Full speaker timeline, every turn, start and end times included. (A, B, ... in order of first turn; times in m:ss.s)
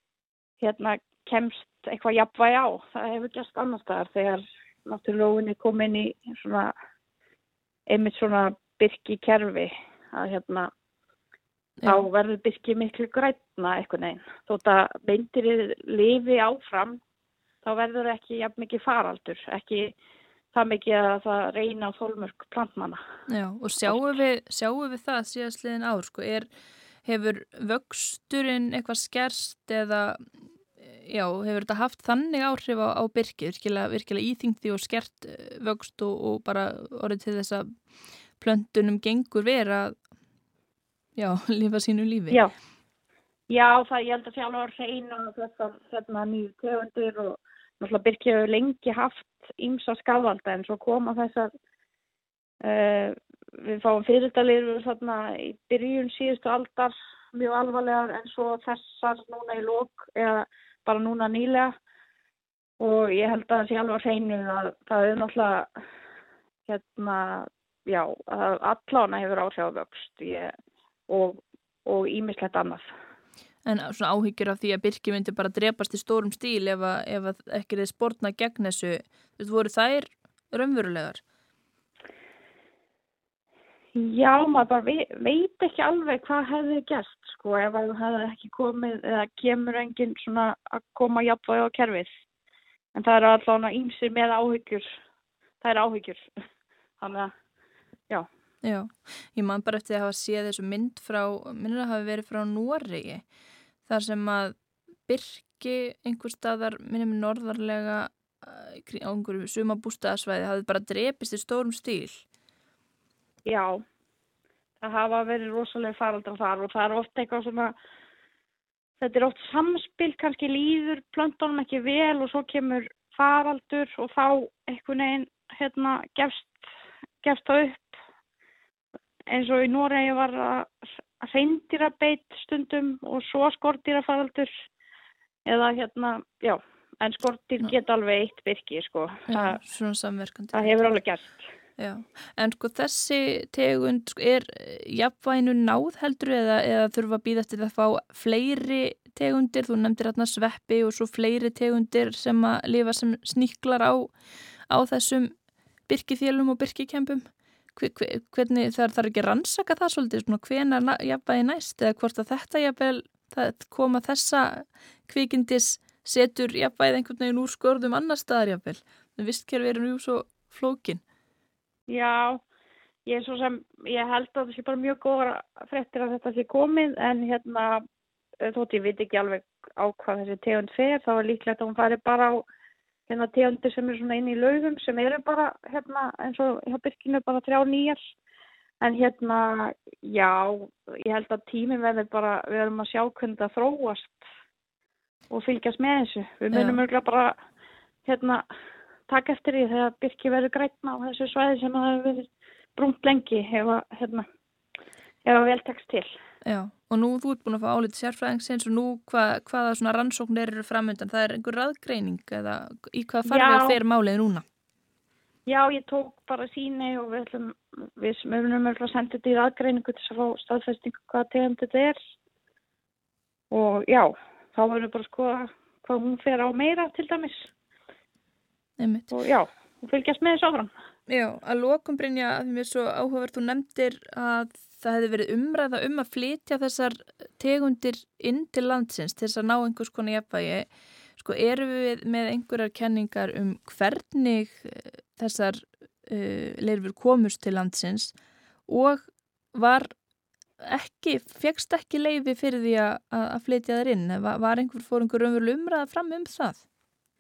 0:00.6-0:06.7 A
0:07.9-0:10.7 A
0:11.8-0:12.1 B
0:11.9-0:17.0 A
0:17.6-0:19.9 A
0:20.5-0:23.0 A
0:23.3-0:26.5 B
0:23.9-0:24.2 A
0:27.0-0:30.2 B
0:30.8-0:37.7 B
0:38.4-0:40.0 B
0:41.2-0:42.5 B
0:43.5-0:51.5 A
0:52.6-1:01.7 A
1:02.8-1:05.7 A
1:06.7-1:10.5 A
1:11.1-1:12.9 A
1:13.7-1:21.2 B
1:24.0-1:32.1 A
1:33.0-1:34.9 A
1:35.6-1:36.3 A
1:37.0-1:37.3 A
1:38.6-1:43.2 B
1:43.9-1:44.6 B
1:45.1-1:52.2 B
1:53.5-1:53.8 A
1:54.8-1:57.7 A
1:59.0-2:06.6 A
2:07.2-2:08.0 A
2:09.3-2:10.7 A
2:11.2-2:14.5 A
2:15.5-2:19.6 A
2:19.3-2:20.8 B
2:20.5-2:21.3 A
2:21.8-2:34.1 B
2:34.7-2:35.3 B
2:35.9-2:51.0 B
2:51.9-2:52.4 A
2:53.1-2:57.8 A
2:58.4-3:02.4 A
3:03.1-3:08.0 A
3:08.8-3:14.2 A
3:15.3-3:17.3 A
3:16.5-3:16.8 B
3:18.1-3:18.4 A
3:19.1-3:24.3 A
3:25.2-3:26.1 A
3:26.5-3:34.4 B
3:33.3-3:33.8 A
3:35.5-3:42.0 A
3:43.5-3:47.5 A
3:48.8-3:49.1 B
3:49.1-3:50.7 A
3:51.1-4:08.2 B
4:08.7-4:09.9 B
4:10.6-4:16.6 B